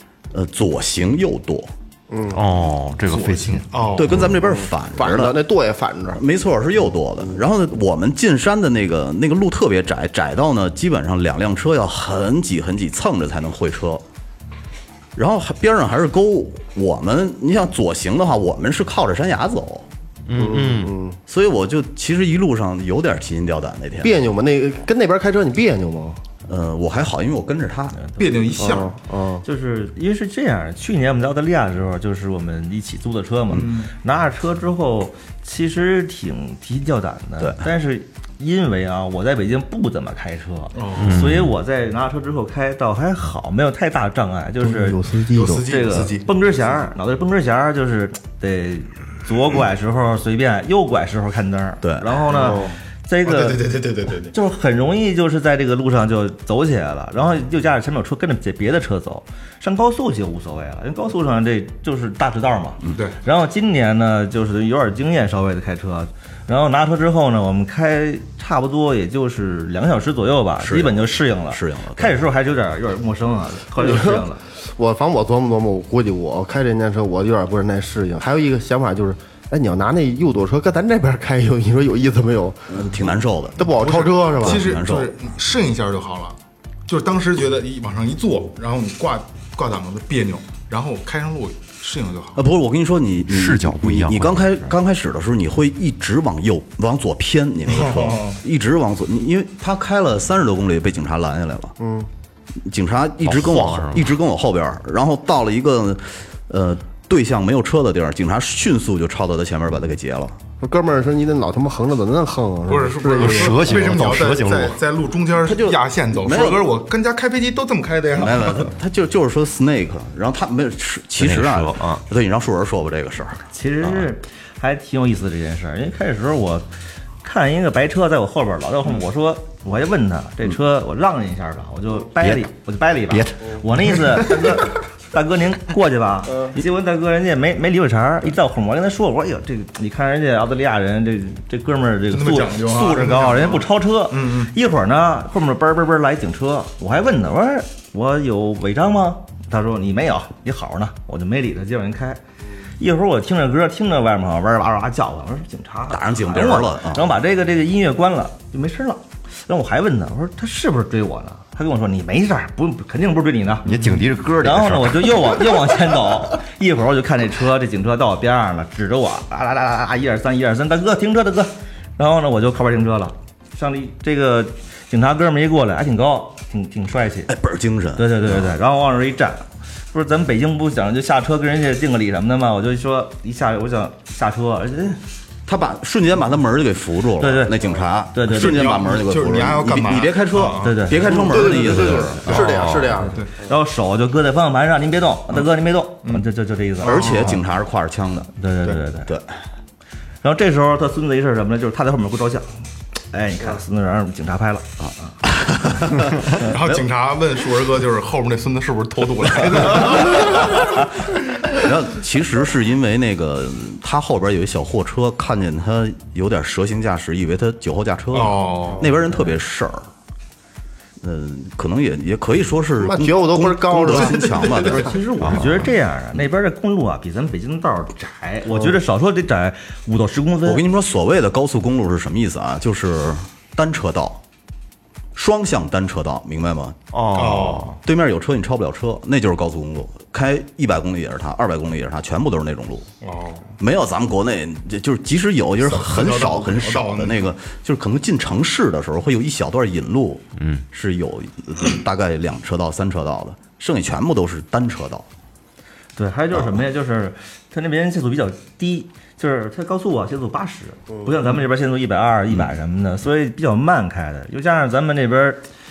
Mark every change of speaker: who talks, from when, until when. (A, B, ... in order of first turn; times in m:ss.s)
0:00.3-0:01.7 A
0:02.1-0:02.4 B
0:02.3-0:03.7 C
0:03.1-0:04.3 D
0:04.0-0:05.4 A
0:04.2-0:06.2 B
0:06.1-0:14.0 A
0:15.2-0:19.9 A
0:20.3-0:20.9 C
0:20.4-0:21.2 B
0:21.3-0:24.2 A
0:24.0-0:26.2 B
0:26.4-0:28.0 A
0:27.9-0:28.2 E
0:28.2-0:28.9 D
0:28.6-0:29.4 B
0:29.4-0:45.0 E
0:33.5-0:33.9 D
0:37.4-0:37.6 A
0:40.7-0:41.3 D
0:41.0-0:41.5 C
0:44.6-0:45.7 B
0:45.3-0:46.3 D
0:45.6-0:53.6 E
0:51.8-0:52.2 A
0:52.3-0:54.3 D
0:52.3-0:52.7 B
0:54.3-1:14.4 E
1:02.9-1:03.2 D
1:10.6-1:12.2 A
1:13.8-1:22.9 B
1:22.7-1:23.7 A
1:23.6-1:24.7 B
1:23.6-1:32.4 D
1:24.4-1:25.1 A
1:32.4-1:41.7 A
1:33.3-1:34.7 C
1:37.6-1:38.4 D
1:41.8-1:42.1 B
1:42.6-1:50.4 A
1:43.2-1:44.1 C
1:50.6-1:53.8 B
1:52.7-1:58.7 D
1:53.1-1:54.8 C
1:55.4-1:56.7 A
1:58.1-2:03.5 A
2:01.2-2:02.0 C
2:03.5-2:06.7 E
2:07.2-2:32.2 E
2:12.2-2:12.5 C
2:13.1-2:14.3 C
2:22.1-2:24.5 D
2:32.8-2:43.7 E
2:35.9-2:37.1 A
2:43.6-2:45.4 C
2:44.4-2:57.3 E
2:57.3-2:58.5 A
2:58.0-3:05.0 E
3:05.4-3:12.5 A
3:07.2-3:07.5 E
3:08.1-3:08.6 E
3:08.3-3:12.4 D
3:10.6-3:11.2 E
3:11.1-3:13.3 B
3:12.4-3:13.0 C
3:13.0-3:17.3 E
3:13.0-3:13.3 D
3:16.8-3:17.4 D
3:16.8-3:18.3 A
3:18.4-3:19.1 E
3:19.0-3:19.3 A
3:20.2-3:25.1 E
3:24.8-3:26.8 A
3:26.4-3:30.8 D
3:31.5-3:39.9 A
3:38.1-3:38.9 D
3:41.0-3:44.9 A
3:42.8-3:44.8 B
3:44.0-3:44.9 D
3:44.7-3:50.6 E
3:45.2-3:45.7 C
3:50.4-3:54.2 A
3:55.1-3:56.8 A
3:56.9-3:57.8 C
3:57.1-3:57.8 D
3:57.8-4:02.9 A
4:03.0-4:03.5 D
4:03.6-4:15.0 A
4:05.6-4:07.3 D
4:10.4-4:10.6 C
4:16.0-4:25.4 E
4:16.3-4:16.6 A